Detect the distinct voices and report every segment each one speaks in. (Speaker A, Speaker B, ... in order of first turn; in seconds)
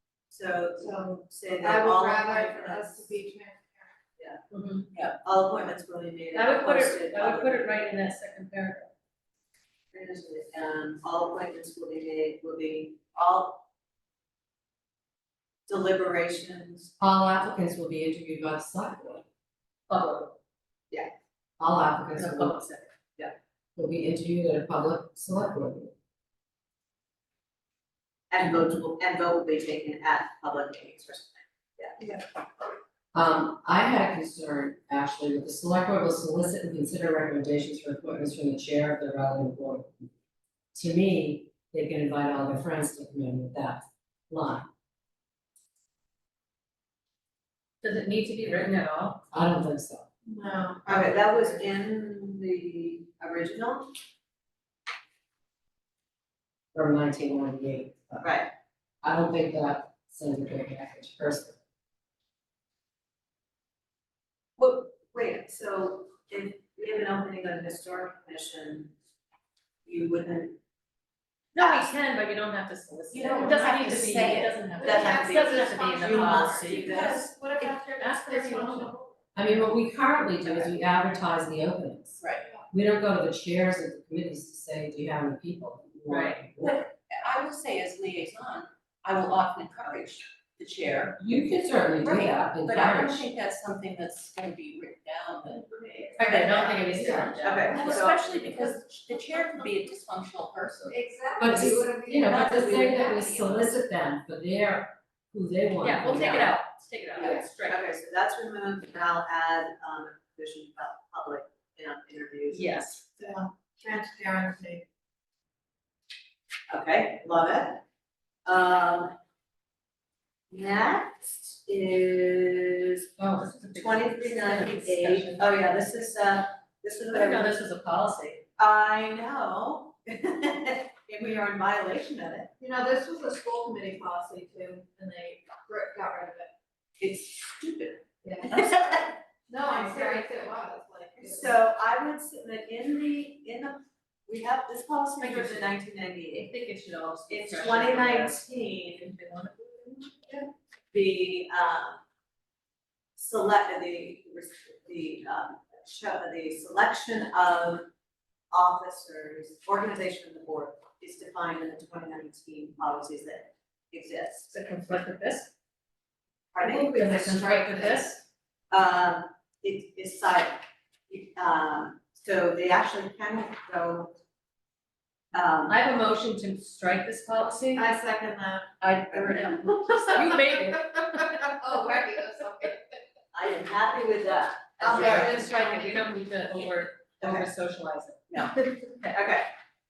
Speaker A: 0.3-3.2, 5.2-7.8, 9.9-13.6, 15.7-16.9, 28.3-32.2, 50.9-53.9, 58.2-58.5, 64.6-68.9, 69.8-70.6, 71.6-71.9, 74.8-77.8, 97.4-98.7, 107.2-112.8, 116.7-117.8, 118.5-119.2, 120.5-123.1, 123.7-127.6, 128.6-132.5, 137.0-140.3, 141.2-146.5, 147.3-149.2, 150.9-152.0, 153.2-157.9, 158.5-164.5, 166.5-168.1, 168.7-174.2, 175.3-175.8, 183.3-185.5, 187.2-187.5, 189.0-189.5
Speaker B: 0.8-4.0, 50.3-51.7, 74.8-79.1, 95.8-96.9, 100.9-102.8, 113.2-114.8, 132.6-136.5, 138.2-138.6, 139.5-141.6, 167.4-168.0, 177.7-178.7, 181.4-182.8, 184.8-186.1
Speaker C: 4.5-4.9, 6.3-8.9, 19.9-20.4, 22.2-22.9, 47.8-49.2, 71.5-77.0, 78.0-78.9, 86.1-86.4, 96.2-97.8, 105.8-107.8, 112.5-113.0, 123.2-125.5, 127.1-128.4, 145.2-145.7, 146.3-148.4, 149.2-150.2, 164.5-165.5, 166.6-168.2, 175.7-177.9, 179.1-181.6, 184.9-189.2
Speaker D: 17.0-19.2, 21.6-22.6, 23.8-25.9, 33.1-40.1, 40.7-44.7, 49.3-50.1, 56.8-58.3, 59.0-61.6, 79.3-82.2, 82.7-86.8, 91.2-93.2, 101.4-106.5
Speaker E: 73.1-74.7, 82.2-82.5, 86.7-91.5, 92.0-95.7, 96.3-101.1, 102.0-103.8, 179.0-179.6